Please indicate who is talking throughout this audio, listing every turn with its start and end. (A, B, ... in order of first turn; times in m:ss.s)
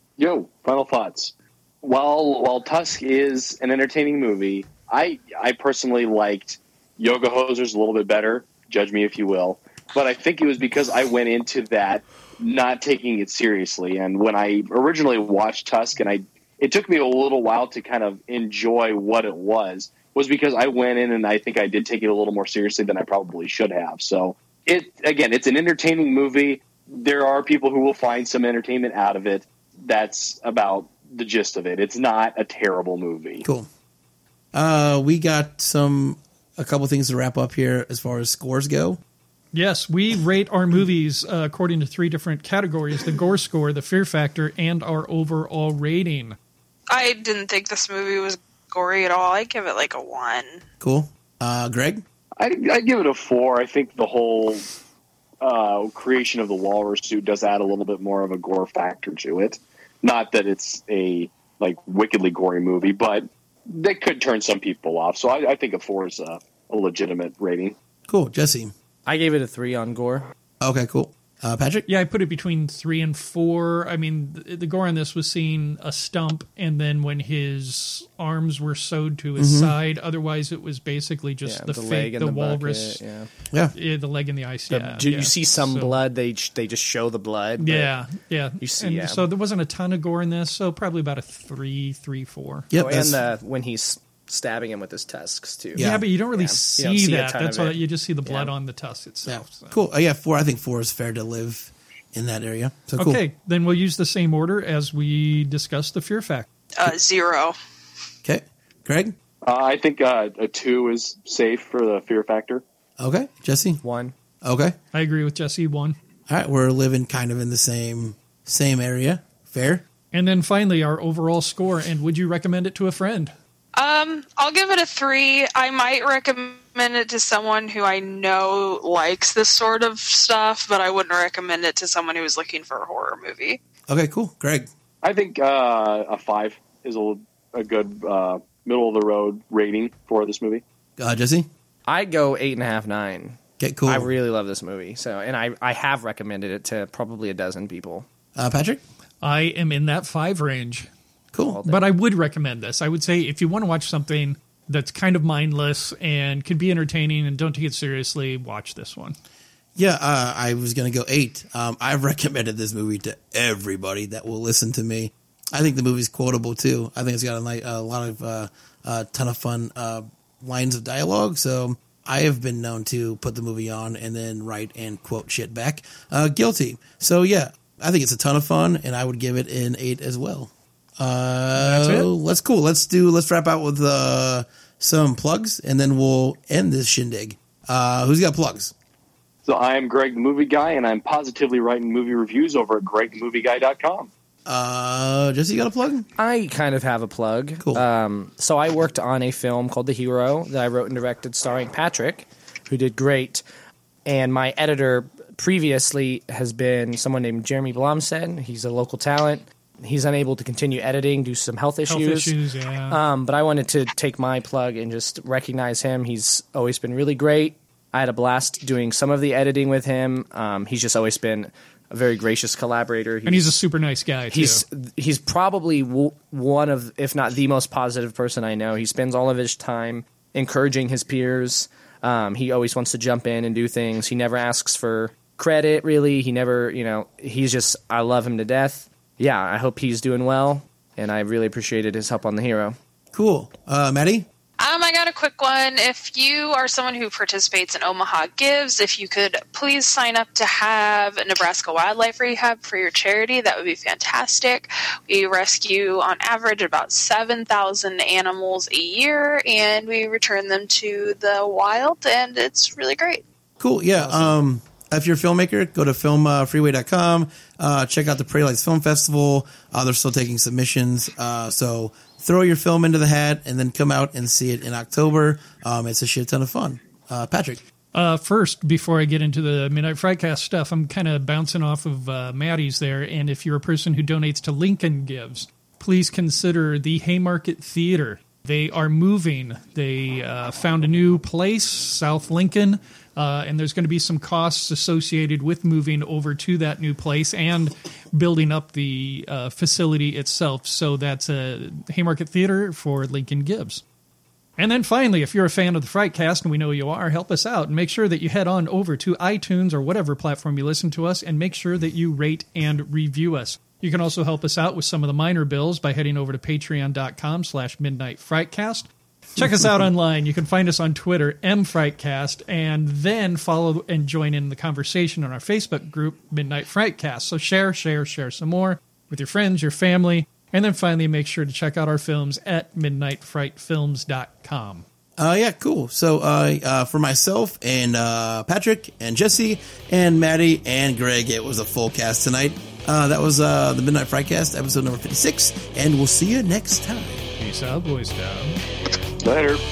0:00.2-0:33.4 A
0:34.5-0:39.0 B
0:39.5-0:46.4 C
0:46.9-0:50.6 D
0:50.8-0:52.0 B
0:52.4-0:54.7 A
0:55.4-1:07.8 A
1:08.1-1:08.7 B
1:09.1-1:10.3 E
1:10.6-1:11.9 B
1:11.9-1:23.0 C
1:19.4-1:19.7 B
1:21.4-1:23.3 E
1:23.7-1:25.9 C
1:24.7-1:27.9 E
1:27.6-1:32.7 C
1:28.6-1:29.2 E
1:32.7-1:33.2 B
1:32.8-1:38.5 E
1:35.8-1:36.0 B
1:35.8-1:39.8 C
1:39.2-1:43.2 B
1:43.0-1:46.5 C
1:46.8-1:47.6 D
1:48.2-1:49.1 B
1:49.4-1:52.6 A
1:53.0-1:53.8 B
1:53.8-1:54.1 E
1:54.4-1:54.8 B
1:54.9-1:56.0 C
1:56.3-1:59.8 B
2:00.1-2:03.3 C
2:03.8-2:13.6 D
2:13.9-2:14.7 B
2:15.0-2:20.6 A
2:21.0-2:21.5 B
2:21.9-2:28.1 E
2:23.6-2:24.1 B
2:28.4-2:28.8 B
2:29.2-2:30.9 C
2:31.3-2:31.6 B
2:31.5-2:31.8 E
2:31.7-2:39.2 C
2:39.8-3:08.7 B
3:01.6-3:02.1 C
3:09.4-3:14.1 A
3:14.5-3:16.1 B
3:16.2-3:23.4 E
3:24.0-3:32.4 E
3:31.9-3:33.0 C
3:32.9-3:43.5 E
3:43.2-3:44.6 C
3:44.3-4:02.8 E
4:03.1-4:04.3 B
4:04.6-4:23.2 D
4:23.6-4:37.6 B
4:24.0-4:24.3 E
4:37.9-5:03.8 C
5:04.6-5:34.8 C
5:35.2-5:47.3 B
5:47.4-5:48.6 C
5:49.2-5:49.6 A